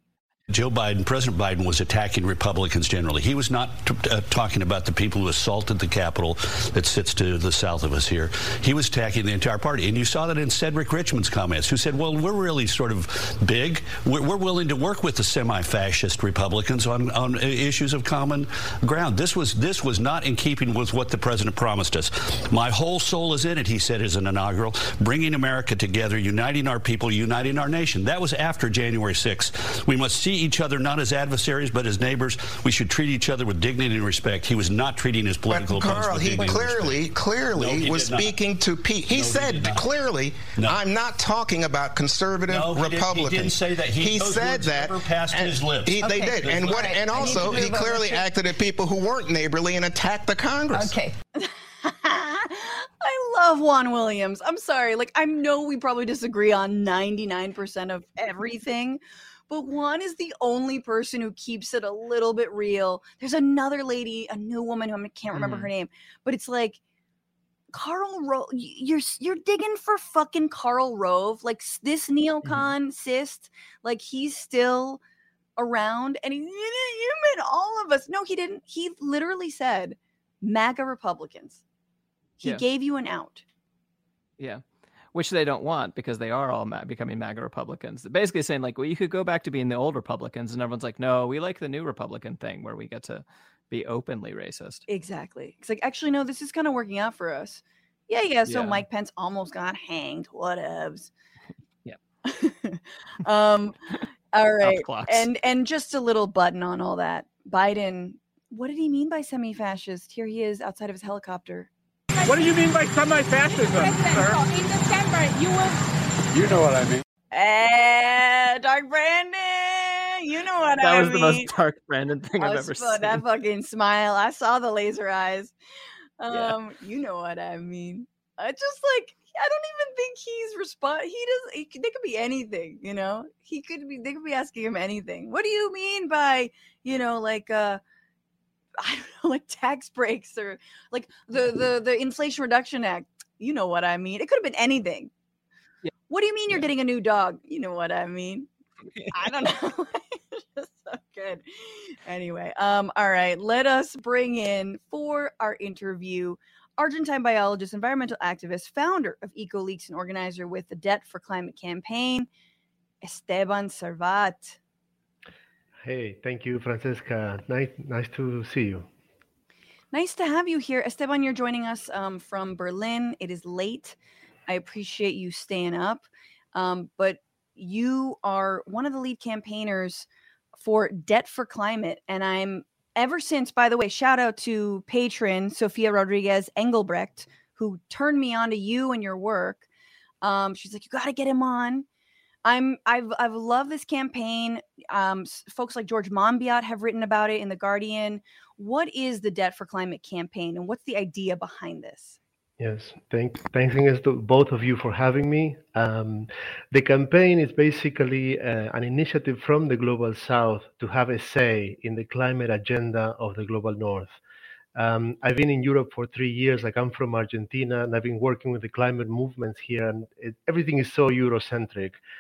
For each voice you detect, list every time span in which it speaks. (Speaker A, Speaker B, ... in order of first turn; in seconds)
Speaker A: 0.5-38.4, 39.1-39.9, 42.5-48.0
Speaker B: 35.5-51.0
Speaker C: 51.4-66.8, 67.7-75.0, 75.6-81.6, 82.4-83.4, 94.9-101.1, 102.2-111.7, 117.3-121.5, 122.4-125.5, 126.2-137.8, 138.8-145.1, 146.1-148.5, 149.1-162.3, 163.0-164.6, 169.9-189.6, 190.2-191.9, 192.4-202.2
Speaker D: 65.3-65.7, 72.4-72.7, 85.1-94.8, 98.5-98.8, 104.6-105.3, 120.8-123.2, 126.3-126.5, 148.9-149.3
Speaker E: 112.2-112.8, 113.4-115.8
Speaker F: 112.2-114.4, 116.3-117.0
Speaker G: 165.8-168.9, 202.6-214.2, 214.8-222.0